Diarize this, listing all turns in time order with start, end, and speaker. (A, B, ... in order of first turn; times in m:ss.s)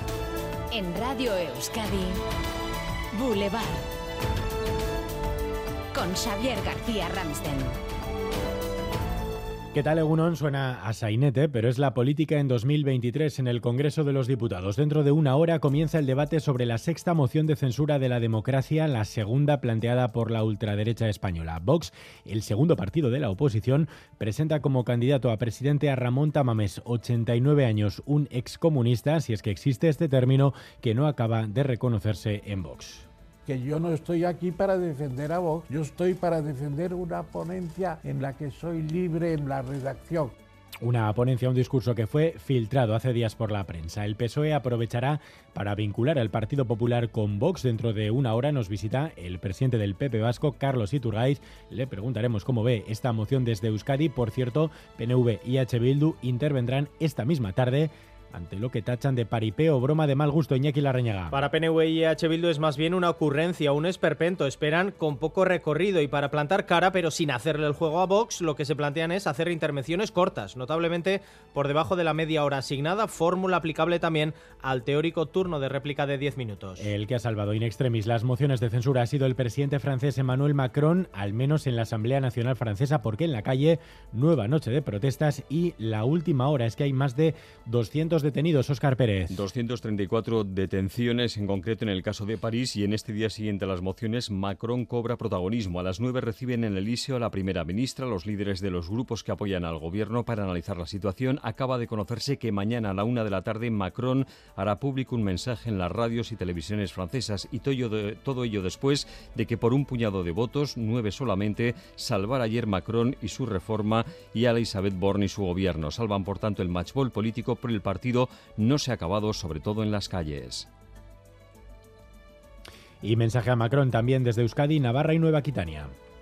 0:01.1-0:01.8 A
0:06.0-0:07.6 A
0:09.7-0:33.0 B
0:33.5-0:40.3 C
0:40.8-1:01.4 B
1:01.4-1:16.7 D
1:16.8-1:29.4 B
1:29.3-2:00.7 E
2:03.0-2:05.9 B